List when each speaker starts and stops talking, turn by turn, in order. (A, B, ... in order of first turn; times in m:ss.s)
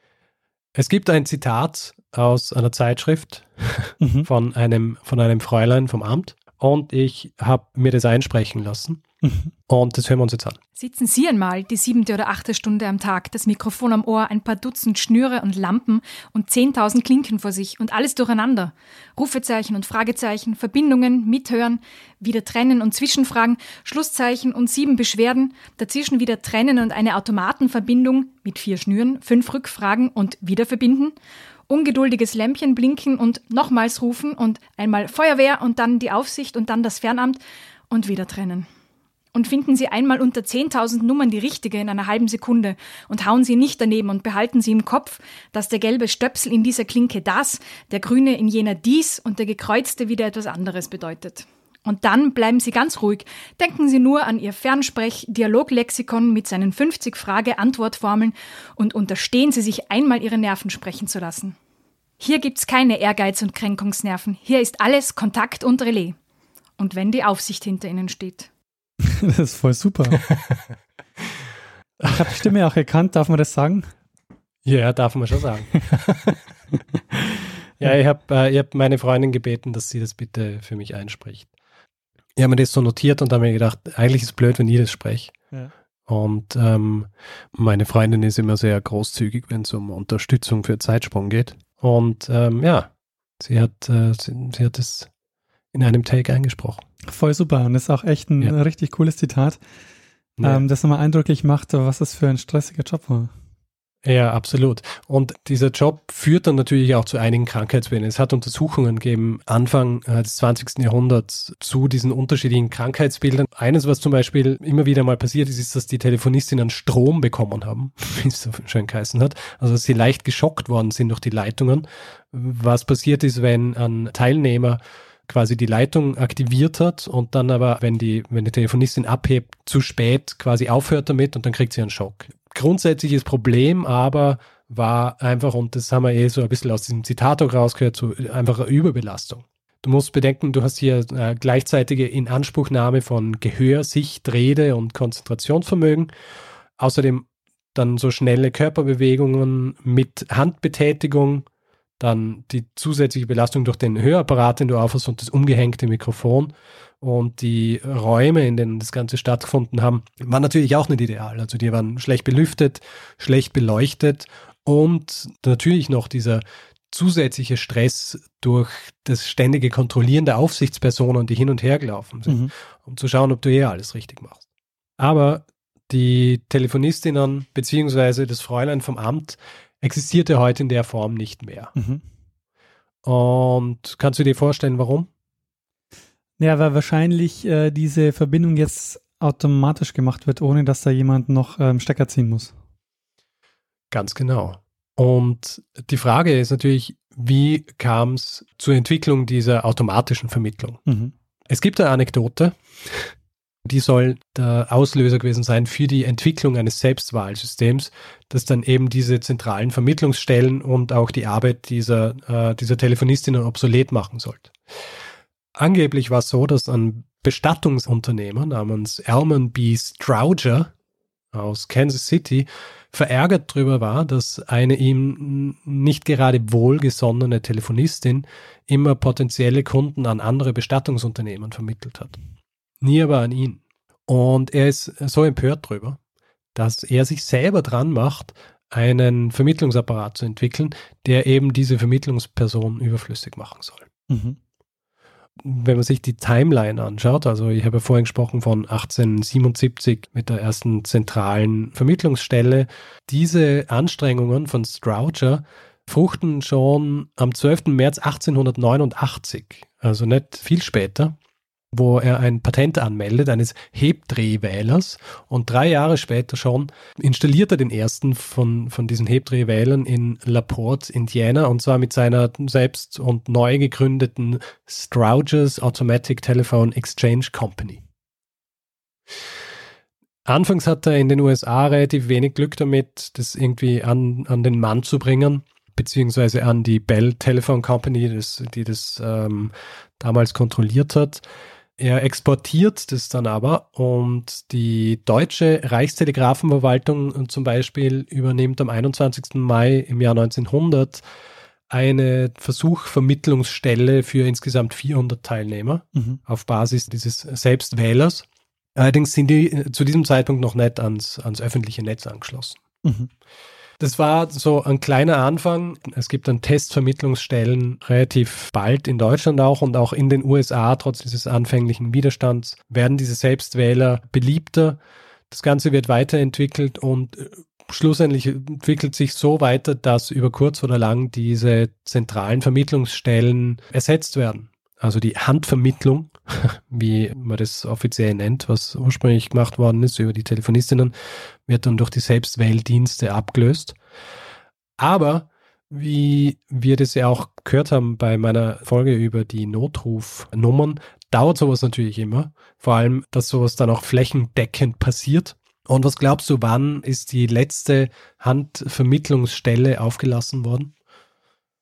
0:00.8-0:09.0 A
0:04.0-0:04.3 B
0:09.2-0:09.5 B
0:09.7-0:10.6 A
0:10.8-0:31.1 C
0:31.7-0:38.7 C
0:39.3-1:01.6 C
1:02.2-1:06.2 C
1:06.8-1:08.5 C
1:09.0-1:10.2 B
1:10.2-1:10.6 A
1:12.0-1:12.5 A
1:12.0-1:13.9 B
1:14.6-1:16.4 A
1:17.8-1:21.5 A
1:22.4-1:25.3 A
1:26.1-1:35.1 A
1:35.7-1:36.8 A
1:37.1-1:39.6 B
1:40.4-1:40.7 A
1:40.4-1:43.3 B
1:44.0-2:26.1 A
2:26.8-2:31.4 A
2:32.0-2:54.4 A
2:55.0-3:01.8 A
3:01.8-3:02.0 B
3:03.0-3:05.1 A
3:06.4-3:12.5 B
3:13.9-3:20.8 A
3:20.9-3:21.1 B
3:21.5-3:23.1 A
3:23.6-3:34.5 A
3:35.6-3:40.7 A
3:41.3-3:52.2 A
3:52.8-3:56.0 A
3:56.6-4:03.9 A
4:04.1-4:04.4 B
4:05.4-4:21.1 A
4:21.7-4:37.8 A
4:40.3-4:51.2 A
4:51.8-5:01.0 A
5:01.7-5:12.6 A
5:06.0-5:06.2 B
5:12.8-5:13.1 B
5:13.8-5:24.8 A
5:25.3-5:40.9 A
5:41.5-5:43.8 A
5:44.8-6:00.7 A